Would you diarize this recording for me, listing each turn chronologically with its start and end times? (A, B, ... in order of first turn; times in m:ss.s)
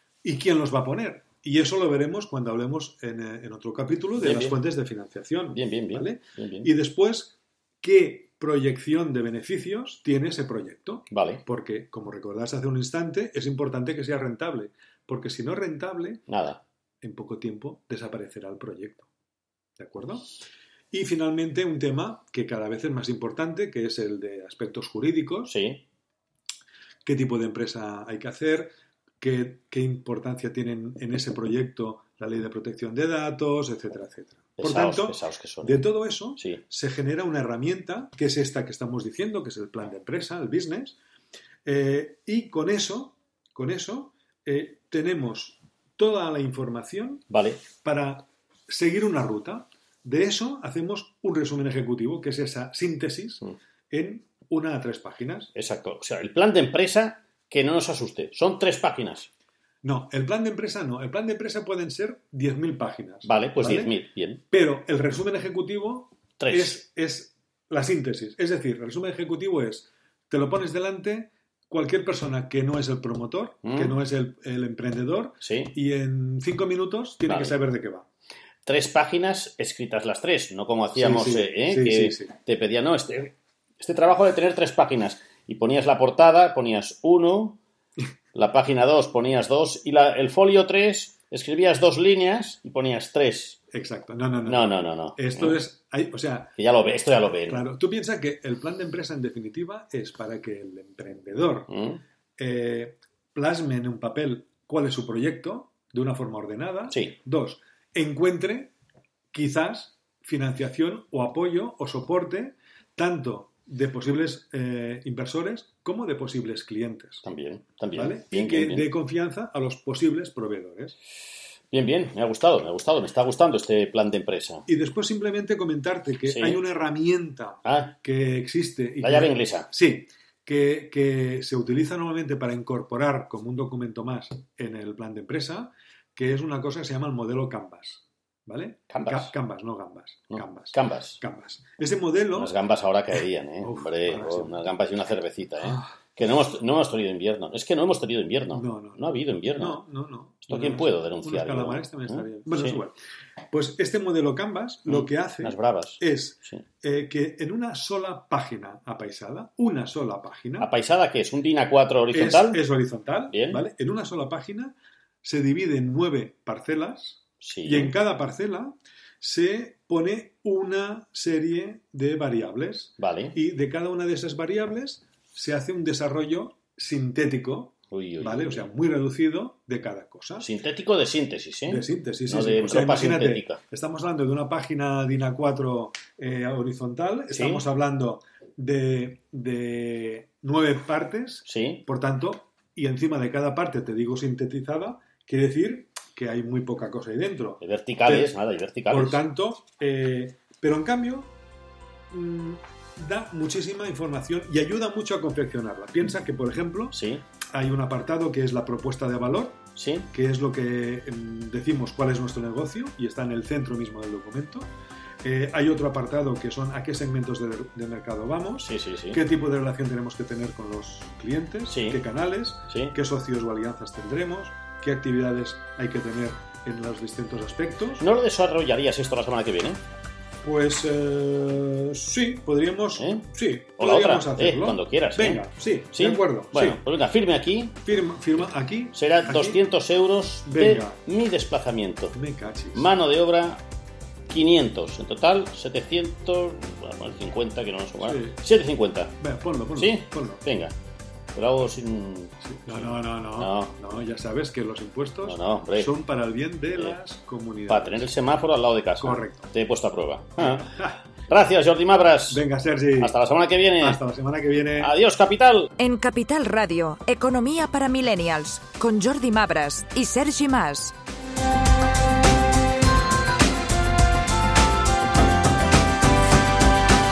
0:00.2-0:16.2 A
0:04.2-0:04.6 B
0:05.5-0:06.7 B
0:11.1-0:11.4 B
0:16.3-0:16.6 B
0:17.0-0:19.1 A
0:19.8-0:20.3 A
0:20.9-0:25.5 A
0:25.5-0:25.8 B
0:27.0-0:41.0 A
0:34.6-0:36.6 B
0:41.6-0:55.5 A
0:47.3-0:47.6 B
0:55.5-0:59.3 B
0:59.8-1:03.9 A
1:03.2-1:04.4 B
1:04.5-1:18.0 A
1:06.4-1:06.8 B
1:13.6-1:14.0 B
1:15.4-1:15.8 B
1:17.2-1:17.6 B
1:18.6-1:27.6 B
1:20.9-1:22.3 A
1:28.3-1:33.6 B
1:33.7-1:36.6 A
1:34.4-1:35.6 B
1:36.6-1:37.6 B
1:37.4-1:41.7 A
1:41.7-1:42.0 B
1:42.4-1:48.7 A
1:46.9-1:47.2 B
1:49.3-1:57.2 A
1:57.2-1:58.9 B
1:57.9-2:00.9 A
2:01.7-2:04.6 B
2:04.7-2:22.5 A
2:06.2-2:06.6 B
2:07.6-2:07.9 B
2:09.0-2:09.7 B
2:18.9-2:19.3 B
2:20.3-2:21.2 B
2:22.3-2:29.8 B
2:23.6-2:24.6 A
2:25.6-2:25.9 A
2:28.5-2:33.0 A
2:30.4-2:32.8 B
2:33.5-2:40.7 A
2:34.9-2:36.6 B
2:40.6-2:42.6 B
2:42.1-3:00.5 A
2:43.3-2:43.6 B
2:47.4-2:47.9 B
2:53.0-2:53.4 B
2:57.9-2:58.7 B
3:00.4-3:03.6 B
3:01.7-3:18.4 A
3:07.3-3:07.6 B
3:11.4-3:11.8 B
3:17.6-3:19.2 B
3:18.9-3:21.3 A
3:22.1-3:27.0 A
3:26.9-3:27.2 B
3:27.5-3:34.7 A
3:29.8-3:30.1 B
3:35.2-3:48.0 A
3:38.6-3:39.2 B
3:41.6-3:42.0 B
3:42.7-3:43.0 B
3:48.0-3:49.8 B
3:50.4-3:56.8 A
3:53.0-3:57.8 B
3:57.8-3:59.6 A
3:58.4-4:02.2 B
4:00.4-4:01.0 A
4:02.1-4:02.9 A
4:02.7-4:03.6 B
4:04.3-4:09.1 B
4:08.0-4:08.4 A
4:09.2-4:10.4 A
4:09.8-4:10.7 B
4:11.3-4:14.0 B
4:12.4-4:18.1 A
4:15.2-4:15.9 B
4:16.7-4:17.0 B
4:17.7-4:22.4 B
4:19.0-4:19.5 A
4:20.7-4:20.9 A
4:22.3-4:23.2 A
4:23.0-4:24.0 B
4:23.8-4:24.9 A
4:24.8-4:25.7 B
4:25.8-4:30.9 C